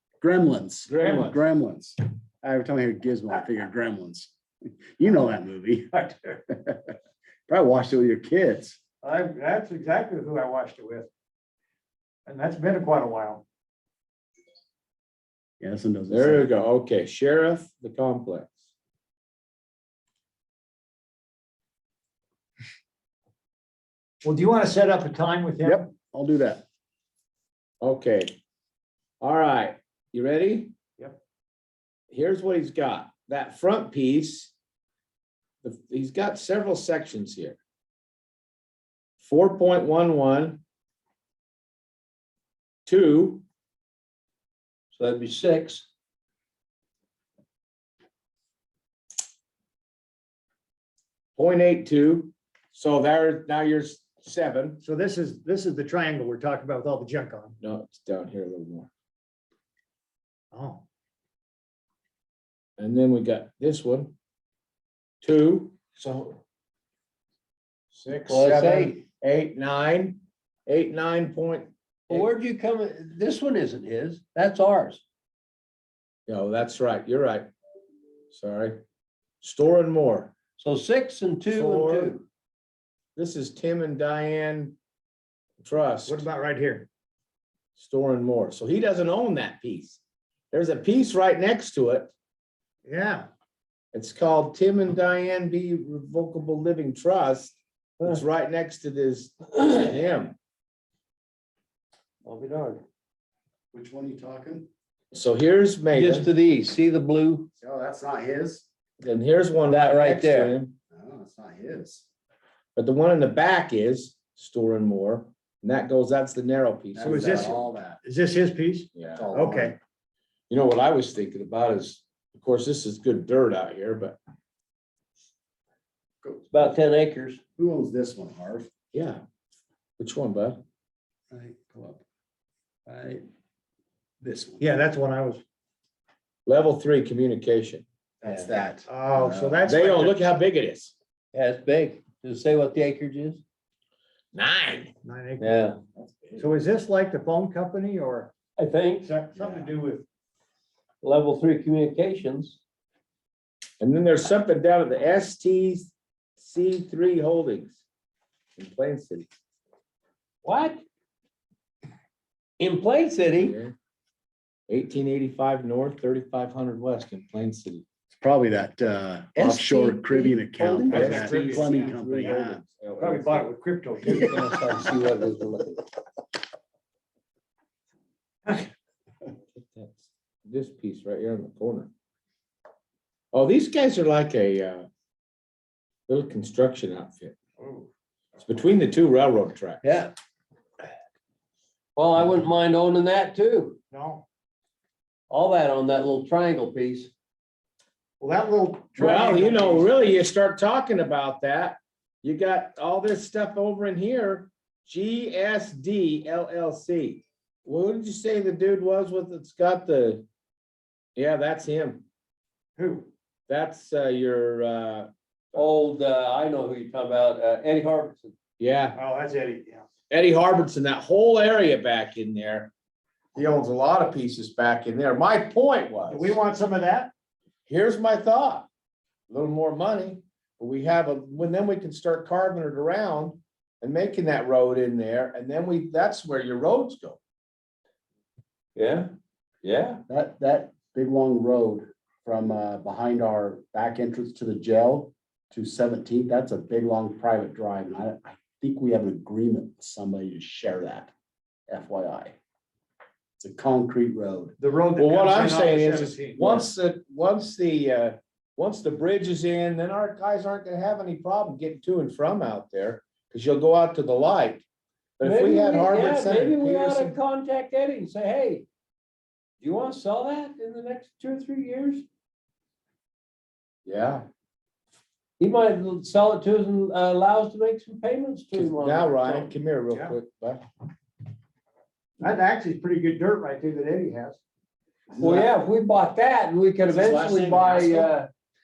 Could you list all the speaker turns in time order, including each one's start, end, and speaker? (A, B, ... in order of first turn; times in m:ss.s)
0:00.2-0:06.0 A
0:00.9-0:01.4 B
0:01.0-0:01.3 C
0:05.9-0:06.4 C
0:06.5-0:06.9 A
0:07.5-0:08.8 A
0:09.0-0:11.1 C
0:12.2-0:13.4 C
0:15.6-0:16.6 A
0:16.1-0:18.7 B
0:24.2-0:25.8 C
0:25.6-0:26.6 A
0:27.8-0:28.3 B
0:29.2-0:30.7 B
0:32.1-0:34.5 B
0:35.6-0:37.6 B
0:39.2-0:40.6 B
0:42.8-0:43.4 B
0:44.9-0:45.8 D
0:51.4-0:54.8 B
0:54.8-0:57.6 C
0:57.6-0:58.9 B
1:00.5-1:00.8 C
1:02.8-1:04.1 B
1:05.2-1:06.4 B
1:07.9-1:12.3 B
1:08.2-1:09.0 D
1:12.1-1:15.0 D
1:16.3-1:17.5 B
1:18.3-1:18.8 B
1:19.4-1:20.3 B
1:20.6-1:22.2 D
1:21.5-1:22.1 B
1:23.2-1:24.8 B
1:25.6-1:26.2 B
1:26.1-1:26.9 C
1:27.8-1:30.0 B
1:30.5-1:32.1 B
1:32.8-1:33.3 C
1:33.9-1:40.3 B
1:42.2-1:42.8 D
1:43.7-1:44.7 A
1:45.1-1:46.3 B
1:45.9-1:47.5 D
1:47.6-1:48.6 A
1:49.0-1:50.7 B
1:49.8-1:50.5 D
1:50.9-1:52.0 A
1:52.8-1:57.6 B
1:56.9-1:58.0 A
1:57.0-1:59.7 C
1:58.9-1:59.2 B
1:59.1-1:59.7 A
2:00.5-2:04.2 B
2:06.2-2:06.6 A
2:06.5-2:07.4 D
2:07.6-2:08.7 A
2:08.9-2:09.2 B
2:10.0-2:10.6 B
2:11.3-2:12.0 A
2:12.8-2:13.2 A
2:14.2-2:14.7 A
2:14.6-2:15.4 C
2:16.4-2:17.8 B
2:18.2-2:19.6 A
2:18.9-2:20.1 C
2:19.6-2:20.9 B
2:21.3-2:23.4 D
2:24.3-2:24.9 B
2:25.0-2:25.5 C
2:25.4-2:25.8 D
2:26.0-2:26.4 A
2:26.4-2:28.3 C
2:28.6-2:29.1 D
2:29.0-2:30.0 C
2:29.4-2:29.7 A
2:31.0-2:32.6 D
2:33.8-2:37.8 B
2:38.6-2:39.4 B
2:40.4-2:40.8 D
2:42.6-2:43.6 D
2:43.3-2:43.7 B
2:44.7-2:47.8 B
2:48.1-2:52.6 A
2:49.4-2:51.0 D
2:50.9-2:51.9 C
2:50.9-2:53.5 B
2:53.0-2:54.3 C
2:54.0-2:55.8 D
2:59.5-3:01.9 B
3:03.3-3:04.9 B
3:06.1-3:07.3 B
3:07.6-3:07.9 C
3:08.4-3:09.8 B
3:09.8-3:10.1 D
3:12.0-3:13.8 D
3:13.9-3:14.2 C
3:15.3-3:17.1 D
3:18.2-3:19.9 C
3:19.0-3:30.2 B
3:31.2-3:32.0 B
3:32.8-3:33.1 C
3:33.5-3:35.1 B
3:35.5-3:38.3 D
3:38.6-3:39.0 B
3:39.0-3:39.8 C
3:40.1-3:42.7 B
3:43.3-3:46.4 B
3:46.1-3:47.1 C
3:47.7-3:48.7 B
3:49.3-3:57.2 B
3:58.8-3:59.1 D
3:59.6-4:00.0 D
4:00.1-4:11.1 A
4:11.7-4:12.3 A
4:13.4-4:14.6 A
4:14.6-4:16.6 C
4:15.0-4:24.6 B
4:25.2-4:27.2 B
4:25.2-4:28.6 D
4:29.6-4:32.0 D
4:33.8-4:34.2 B
4:35.4-4:39.5 D
4:38.5-4:40.6 B
4:42.2-4:44.4 C
4:45.1-4:45.4 C
4:45.1-4:48.3 D
4:46.9-4:48.1 B